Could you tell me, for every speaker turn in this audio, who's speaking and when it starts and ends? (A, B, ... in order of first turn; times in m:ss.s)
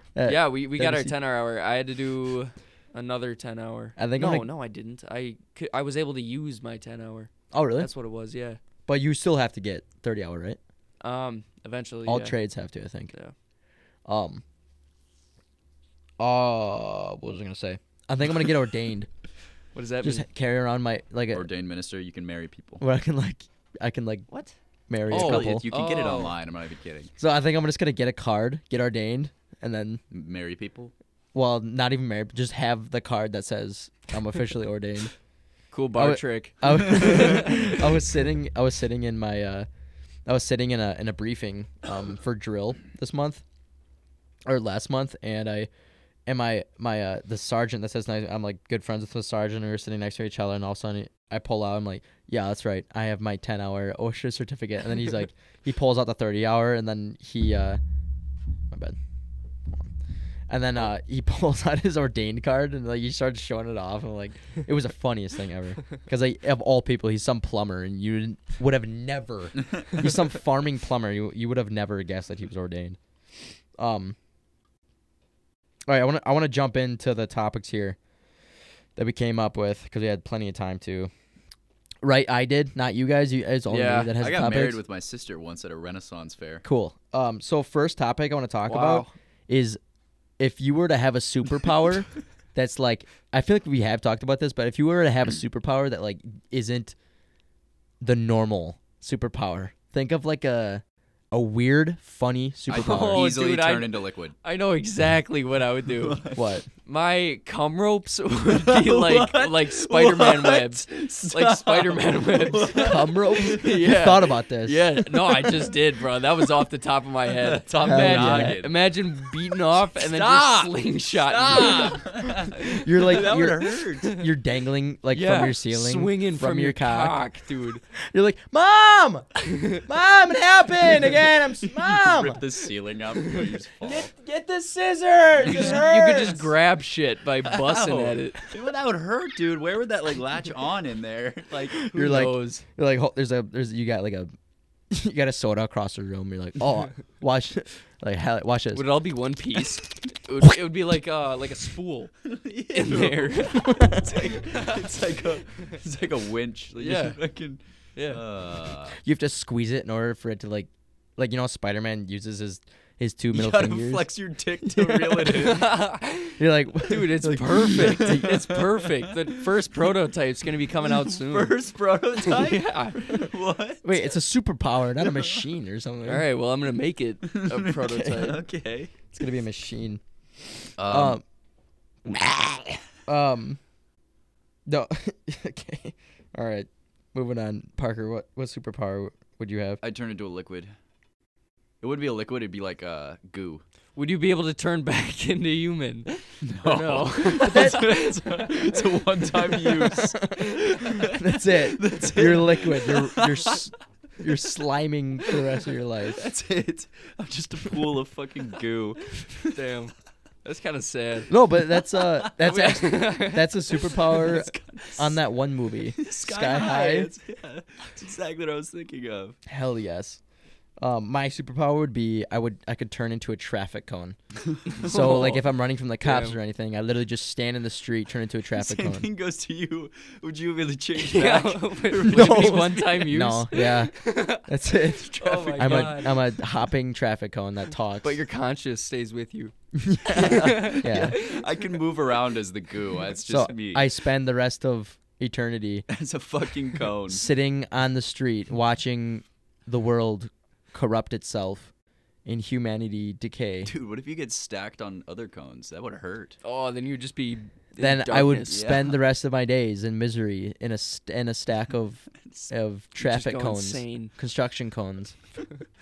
0:00.1-0:01.1 A
0:00.2-0:08.6 B
0:04.0-0:04.5 A
0:07.5-0:07.9 A
0:08.9-0:10.6 A
0:11.0-0:12.4 B
0:12.0-0:13.1 A
0:14.0-0:14.4 A
0:16.2-0:19.1 A
0:19.7-0:20.2 B
0:20.0-0:21.5 A
0:21.3-0:22.8 C
0:22.8-0:24.3 A
0:24.9-0:25.6 A
0:25.1-0:26.3 B
0:25.1-0:27.1 C
0:27.2-0:30.0 A
0:30.1-0:30.9 C
0:31.3-0:35.1 A
0:35.7-0:37.8 B
0:35.9-0:39.7 A
0:40.2-0:43.4 A
0:44.4-0:45.7 A
0:46.2-0:57.8 A
0:58.7-0:59.0 A
1:00.5-1:13.0 A
1:13.8-1:14.2 A
1:15.9-1:18.0 A
1:19.0-1:21.1 A
1:22.0-1:24.8 A
1:23.7-1:24.1 B
1:24.1-1:26.6 C
1:26.6-1:29.8 A
1:28.7-1:29.1 B
1:30.4-1:37.0 A
1:38.0-1:43.2 A
1:42.7-1:44.4 C
1:42.7-1:46.2 B
1:46.0-1:46.4 C
1:46.3-1:46.7 A
1:46.8-2:02.8 B
1:48.4-1:53.8 C
1:52.7-1:54.8 A
1:55.3-1:55.7 C
1:57.3-1:58.8 C
1:57.8-1:58.6 A
1:59.5-2:04.2 C
2:02.3-2:07.2 A
2:05.1-2:07.8 B
2:07.9-2:12.4 A
2:09.5-2:09.8 B
2:11.6-2:14.1 C
2:13.8-2:16.4 A
2:15.4-2:18.4 B
2:15.4-2:15.8 C
2:17.4-2:21.8 C
2:21.8-2:24.3 A
2:21.9-2:22.6 B
2:24.9-2:28.8 A
2:28.7-2:32.1 B
2:32.2-2:39.0 C
2:32.7-2:34.8 B
2:33.6-2:34.2 A
2:36.8-2:37.2 B
2:38.0-2:38.2 B
2:39.0-2:44.1 A
2:43.3-2:45.8 C
2:44.6-2:45.5 A
2:45.2-2:51.5 B
2:46.4-2:48.4 A
2:47.8-2:49.4 C
2:50.8-2:53.9 C
2:52.2-2:53.3 B
2:53.8-2:56.2 A
2:55.0-2:55.4 C
2:56.0-2:58.4 B
2:57.2-2:58.9 C
2:57.9-2:58.3 A
2:59.1-3:00.0 A
3:00.8-3:01.2 C
3:00.8-3:01.2 A
3:02.0-3:03.6 A
3:04.7-3:09.8 A
3:09.8-3:10.7 C
3:11.8-3:13.6 C
3:13.9-3:18.8 B
3:16.4-3:23.7 C
3:17.4-3:17.9 A
3:19.4-3:20.0 B
3:19.8-3:26.2 A
3:26.1-3:29.5 C
3:29.5-3:31.3 B
3:31.3-3:37.1 A
3:32.0-3:32.8 C
3:32.4-3:33.5 B
3:33.8-3:35.2 C
3:36.0-3:39.4 C
3:39.4-3:40.2 A
3:40.8-3:49.0 A
3:44.5-3:44.9 C
3:44.7-3:45.4 B
3:46.0-3:46.4 B
3:48.6-3:53.1 C
3:51.0-3:54.5 B
3:52.1-3:58.2 A
3:55.1-3:56.0 C
3:55.2-3:56.2 B
3:58.0-3:59.5 B
3:59.7-4:01.2 A
4:00.0-4:01.4 B
4:00.1-4:03.9 C
4:03.3-4:05.8 A
4:05.9-4:07.2 C
4:07.1-4:11.7 A
4:12.2-4:13.7 A
4:13.6-4:16.4 C
4:16.4-4:18.6 B
4:17.8-4:25.2 A
4:18.5-4:19.0 C
4:22.2-4:22.5 C
4:23.0-4:24.1 B